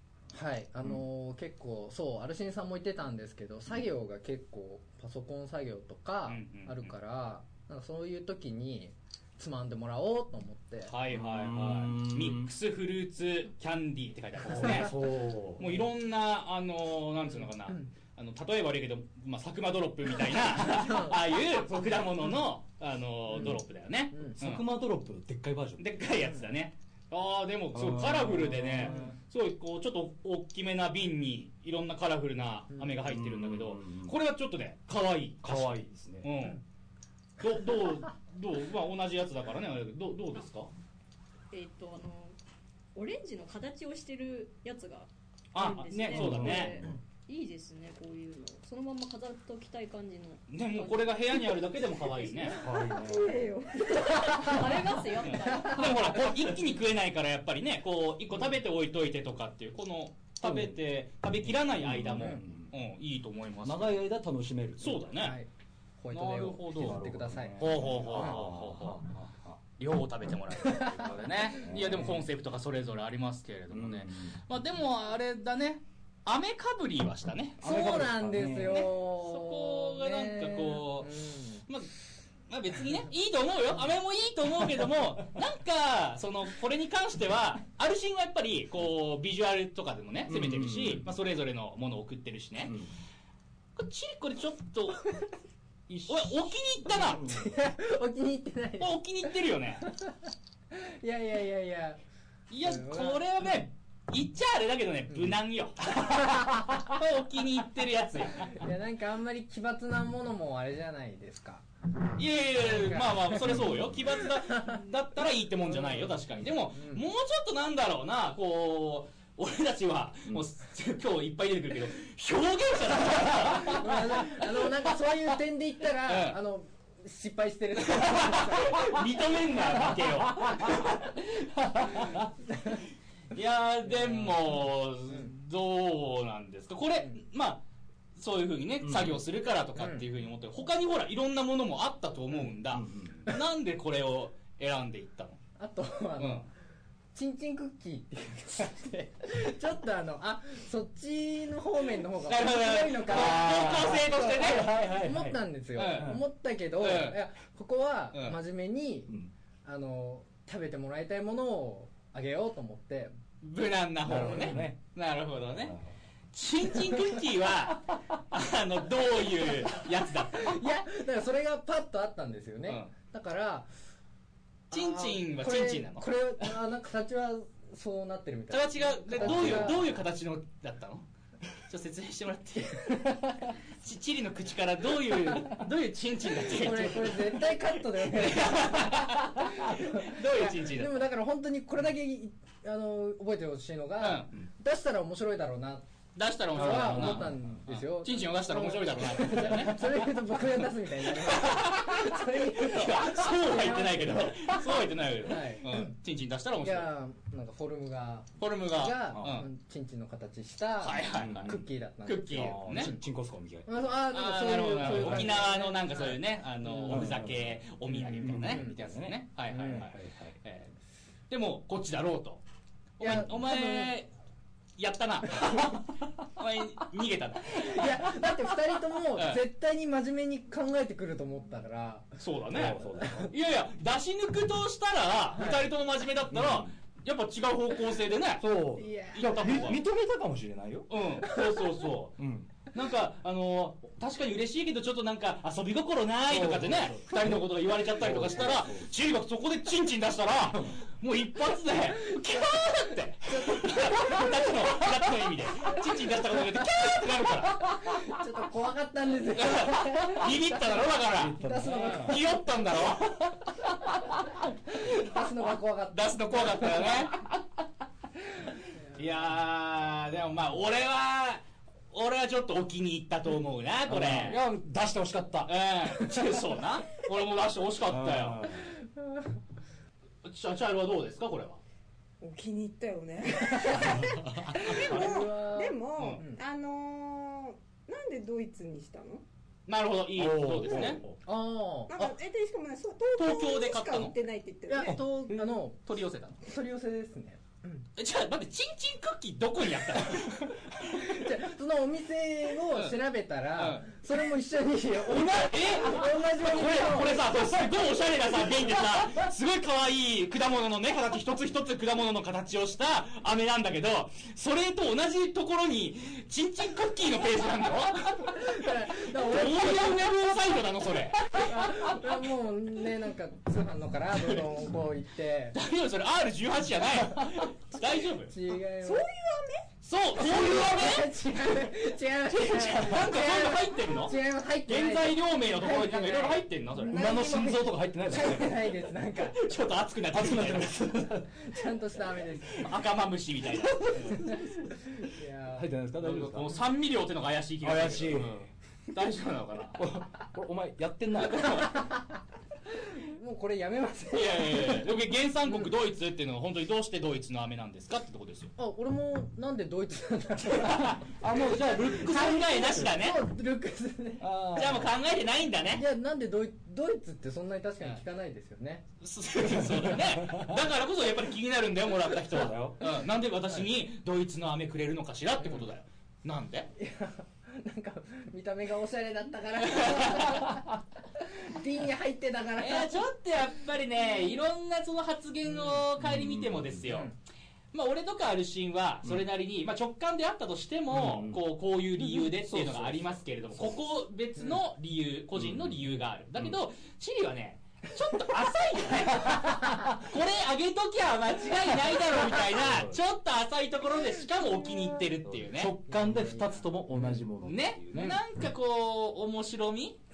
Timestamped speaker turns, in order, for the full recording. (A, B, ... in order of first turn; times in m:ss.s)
0:00.3-0:10.9 A
0:06.3-0:06.9 B
0:10.9-0:24.6 B
0:11.1-0:12.5 C
0:14.4-0:15.8 C
0:20.9-0:21.1 A
0:24.3-0:26.1 C
0:25.8-0:36.6 B
0:27.7-0:29.0 C
0:28.9-0:29.1 A
0:33.1-0:34.2 C
0:35.4-0:36.3 C
0:37.4-0:40.7 B
0:41.5-0:42.4 D
0:43.0-0:52.6 D
0:45.5-0:46.8 B
0:46.1-0:47.0 C
0:50.5-0:52.6 B
0:52.6-0:53.4 C
0:52.8-0:54.4 E
0:54.0-0:56.2 D
0:55.4-1:04.0 B
1:00.4-1:00.8 C
1:01.5-1:02.7 C
1:03.6-1:05.0 C
1:04.8-1:05.4 B
1:05.1-1:05.5 A
1:06.0-1:08.4 A
1:06.1-1:07.0 B
1:06.7-1:09.6 C
1:07.6-1:09.0 B
1:09.8-1:21.9 B
1:11.0-1:12.2 C
1:13.7-1:14.4 C
1:17.6-1:18.9 C
1:17.6-1:21.6 A
1:22.5-1:32.8 B
1:30.3-1:31.1 C
1:32.6-1:32.9 C
1:33.8-1:35.1 B
1:35.9-1:37.4 B
1:37.0-1:37.4 C
1:37.3-1:39.0 A
1:38.8-1:39.8 B
1:39.8-1:40.1 A
1:40.7-1:42.0 A
1:42.5-1:48.6 B
1:42.6-1:43.2 A
1:48.5-1:51.6 A
1:52.2-2:04.5 B
1:52.7-1:53.4 A
1:55.8-1:56.2 A
1:56.7-1:57.0 A
2:03.6-2:09.0 A
2:06.1-2:06.4 B
2:07.8-2:12.2 B
2:13.3-2:17.6 B
2:18.2-2:25.4 B
2:18.8-2:19.2 C
2:22.7-2:23.3 C
2:25.6-2:26.5 A
2:26.2-2:26.4 B
2:27.2-2:39.1 A
2:32.3-2:34.7 B
2:33.1-2:35.4 C
2:35.8-2:36.2 B
2:35.9-2:36.2 C
2:36.8-2:37.2 B
2:38.1-2:38.4 B
2:39.6-2:43.1 A
2:43.4-2:45.8 B
2:44.0-2:44.8 C
2:44.2-2:44.7 A
2:45.6-2:45.9 C
2:46.3-2:50.6 B
2:50.3-2:53.7 A
2:54.7-2:56.5 B
2:54.7-2:59.9 A
2:58.5-3:01.0 B
2:59.2-2:59.8 C
3:01.7-3:11.1 B
3:03.0-3:03.5 A
3:06.5-3:15.8 A
3:14.0-3:14.4 B
3:16.2-3:20.0 B
3:16.5-3:26.0 A
3:16.6-3:17.5 C
3:21.1-3:26.9 B
3:26.6-3:33.0 A
3:28.4-3:29.5 B
3:30.8-3:32.9 B
3:31.1-3:31.6 C
3:32.3-3:33.9 C
3:33.7-3:37.2 A
3:34.1-3:40.7 B
3:34.8-3:35.4 C
3:36.9-3:40.4 C
3:38.2-3:38.8 A
3:39.5-3:39.8 A
3:41.3-3:42.4 B
3:43.0-3:44.1 B
3:43.0-3:44.0 A
3:44.8-3:48.3 B
3:45.4-3:45.8 A
3:47.5-3:52.1 A
3:49.2-3:49.4 B
3:52.2-3:58.5 B
3:52.5-3:53.3 C
3:53.0-3:53.3 A
3:56.3-3:56.7 C
3:58.4-4:00.9 C
3:58.8-3:59.4 A
3:59.1-3:59.8 B
4:00.9-4:02.2 B
4:02.2-4:02.5 C
4:02.7-4:18.0 B
4:06.3-4:08.9 C
4:10.5-4:10.8 C
4:13.3-4:14.3 A
4:17.8-4:20.6 A
4:19.4-4:23.4 B
4:21.1-4:22.2 C
4:21.4-4:22.2 A
4:24.7-4:27.0 A
4:25.9-4:27.3 B
4:29.0-4:34.4 B
4:33.9-4:36.3 C
4:35.4-4:38.5 B
4:37.9-4:38.7 C
4:39.0-4:39.2 A
4:40.2-4:41.6 B
4:42.2-4:49.2 E
4:43.6-4:44.0 A
4:44.0-4:44.6 C
4:44.5-4:46.4 A
4:44.6-4:45.2 B
4:49.7-4:51.0 B
4:50.2-4:51.2 C
4:51.2-4:52.1 A
4:51.9-4:55.0 E
4:53.2-4:54.2 B
4:54.7-4:55.8 A
4:55.3-4:56.4 B
4:56.4-4:57.8 A
4:58.0-5:01.2 B
5:00.9-5:07.4 A
5:02.7-5:03.0 B
5:03.6-5:03.9 B
5:05.1-5:22.0 B
5:18.2-5:20.1 A
5:21.3-5:25.6 A
5:24.2-5:24.4 B
5:25.5-5:28.3 B
5:28.2-5:29.0 A
5:28.8-5:29.7 E
5:29.8-5:31.1 B
5:30.2-5:39.4 A
5:32.3-5:37.0 B
5:36.9-5:37.6 E
5:36.9-5:38.6 C
5:39.3-5:41.0 B
5:40.1-5:41.4 C
5:41.4-5:42.7 A
5:42.5-5:44.4 B
5:43.8-5:45.7 A
5:45.6-5:46.6 C
5:46.0-5:49.8 B
5:47.6-5:48.4 C
5:49.8-5:51.8 C
5:51.2-5:51.8 B
5:52.8-5:54.9 A
5:54.1-5:58.5 B
5:58.6-6:01.0 A
6:00.5-6:01.0 B
6:01.2-6:03.0 C
6:01.8-6:03.2 B
6:02.8-6:04.3 A
6:04.2-6:04.9 C
6:04.6-6:05.8 B
6:05.7-6:08.8 A
6:09.0-6:16.7 B
6:09.6-6:10.6 C
6:12.3-6:12.8 C
6:16.8-6:20.7 A
6:19.7-6:20.5 B
6:21.3-6:23.1 A
6:22.6-6:27.1 B
6:26.0-6:26.8 C
6:27.7-6:45.8 B
6:30.9-6:31.4 C
6:32.2-6:33.7 C
6:35.4-6:36.5 C
6:42.4-6:43.0 C
6:45.2-6:48.2 C
6:46.1-6:46.5 A
6:47.4-6:50.0 B